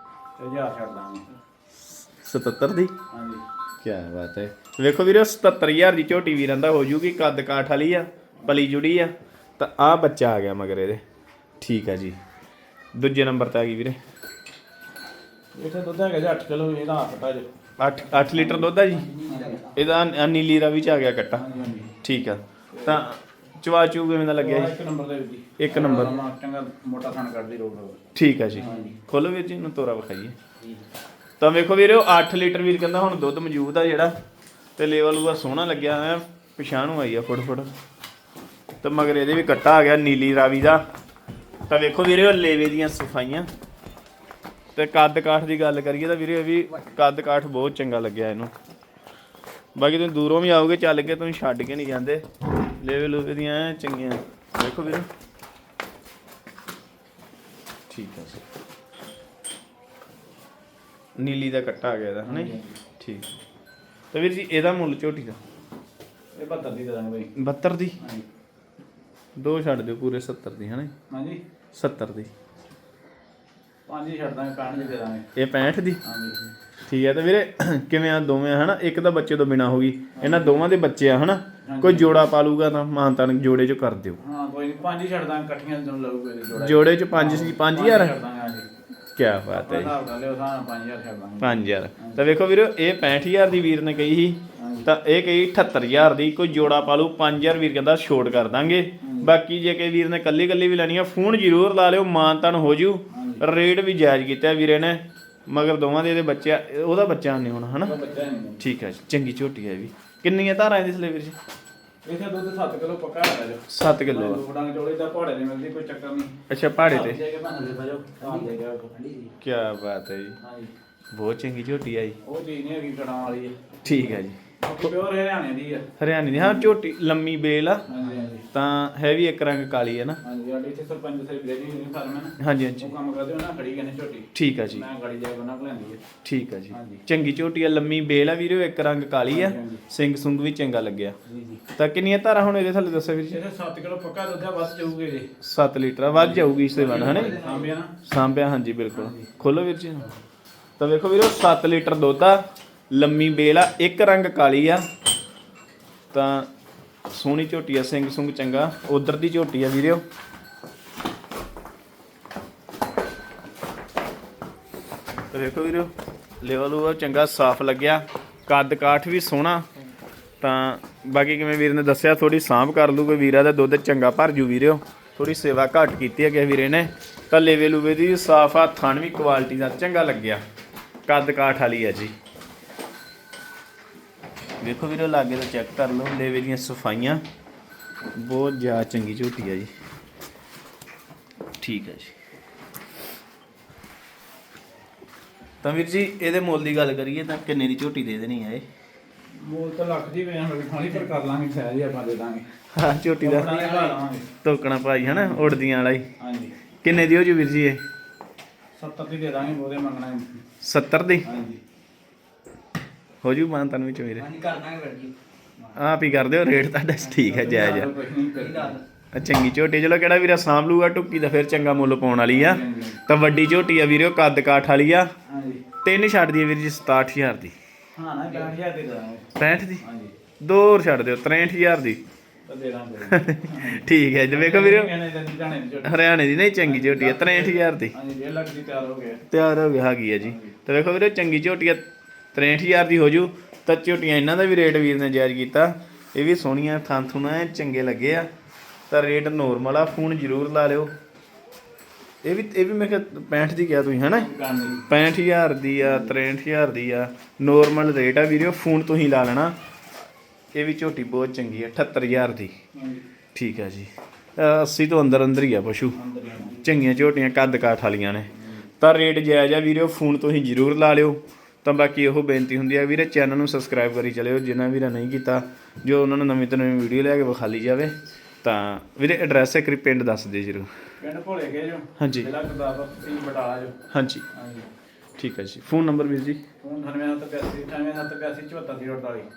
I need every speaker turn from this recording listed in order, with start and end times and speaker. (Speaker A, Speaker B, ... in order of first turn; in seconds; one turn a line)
Speaker A: 0.4-1.3
Speaker B: 2.2-2.9
Speaker A: 3.1-3.4
Speaker B: 3.8-11.0
Speaker B: 11.6-12.2
Speaker B: 12.9-14.0
Speaker A: 15.6-17.5
Speaker B: 17.8-19.1
Speaker C: 18.1-19.8
Speaker A: 19.2-19.6
Speaker B: 19.7-21.4
Speaker A: 21.3-21.9
Speaker B: 22.0-24.8
Speaker A: 22.7-23.0
Speaker A: 24.4-28.0
Speaker B: 25.6-26.1
Speaker C: 25.8-26.2
Speaker B: 28.1-30.4
Speaker A: 28.6-29.0
Speaker B: 31.4-34.1
Speaker B: 34.8-37.7
Speaker B: 38.8-40.8
Speaker B: 41.7-43.5
Speaker B: 44.7-48.5
Speaker B: 49.8-55.1
Speaker B: 57.9-58.4
Speaker B: 61.2-63.3
Speaker A: 62.2-62.8
Speaker B: 64.1-65.4
Speaker A: 66.3-67.3
Speaker B: 67.4-68.0
Speaker A: 68.0-68.2
Speaker B: 69.4-70.9
Speaker A: 71.1-71.4
Speaker B: 71.7-72.3
Speaker A: 73.9-75.2
Speaker B: 75.3-76.0
Speaker A: 76.0-76.5
Speaker B: 76.9-84.2
Speaker A: 80.2-80.7
Speaker A: 81.7-82.2
Speaker A: 84.2-88.7
Speaker B: 86.5-88.1
Speaker B: 89.2-90.0
Speaker A: 89.5-92.2
Speaker B: 91.4-108.0
Speaker A: 94.5-94.9
Speaker A: 99.0-99.3
Speaker A: 103.1-103.4
Speaker A: 107.8-108.6
Speaker B: 108.6-111.4
Speaker A: 112.0-119.0
Speaker B: 113.7-114.4
Speaker B: 116.5-117.2
Speaker C: 118.2-119.3
Speaker B: 119.4-120.4
Speaker A: 120.4-120.7
Speaker B: 121.1-122.2
Speaker A: 122.2-126.7
Speaker B: 123.8-124.9
Speaker B: 126.0-127.9
Speaker A: 127.9-128.5
Speaker B: 128.5-130.2
Speaker A: 130.2-136.1
Speaker B: 132.4-132.9
Speaker B: 134.3-134.8
Speaker B: 136.2-141.2
Speaker A: 136.7-137.0
Speaker A: 139.3-139.8
Speaker A: 141.2-141.6
Speaker B: 141.8-143.4
Speaker A: 143.3-145.3
Speaker B: 145.4-147.4
Speaker A: 146.1-147.9
Speaker C: 146.7-147.7
Speaker B: 148.0-150.1
Speaker A: 148.9-149.3
Speaker B: 150.8-154.8
Speaker B: 156.1-156.5
Speaker B: 157.1-160.0
Speaker B: 165.3-169.7
Speaker B: 170.4-180.4
Speaker B: 181.1-182.1
Speaker B: 184.6-187.2
Speaker B: 188.2-189.7
Speaker B: 191.6-192.1
Speaker B: 195.6-198.6
Speaker A: 199.4-202.5
Speaker B: 202.7-206.1
Speaker A: 203.2-204.3
Speaker A: 205.0-205.6
Speaker A: 206.2-206.5
Speaker B: 206.8-207.8
Speaker A: 208.7-210.4
Speaker B: 210.6-211.2
Speaker A: 211.2-211.6
Speaker B: 213.2-214.3
Speaker C: 214.2-215.1
Speaker B: 215.8-217.9
Speaker A: 217.1-218.8
Speaker C: 218.3-218.8
Speaker B: 219.1-225.1
Speaker A: 222.3-223.0
Speaker A: 225.2-225.7
Speaker B: 225.8-227.5
Speaker A: 227.9-230.2
Speaker B: 229.3-229.8
Speaker B: 230.4-232.0
Speaker A: 232.5-236.0
Speaker B: 233.0-234.9
Speaker B: 235.8-237.9
Speaker A: 236.6-239.2
Speaker B: 239.3-248.3
Speaker A: 240.2-240.5
Speaker B: 248.9-250.9
Speaker B: 252.2-254.3
Speaker A: 254.2-254.9
Speaker B: 254.9-259.6
Speaker A: 255.8-256.1
Speaker B: 260.5-262.5
Speaker A: 262.7-263.0
Speaker B: 263.3-266.0
Speaker A: 265.9-266.7
Speaker B: 266.6-280.7
Speaker A: 268.4-268.6
Speaker A: 281.0-283.8
Speaker B: 282.0-282.3
Speaker B: 283.9-284.2
Speaker A: 284.3-284.7
Speaker B: 285.2-286.4
Speaker A: 286.6-289.3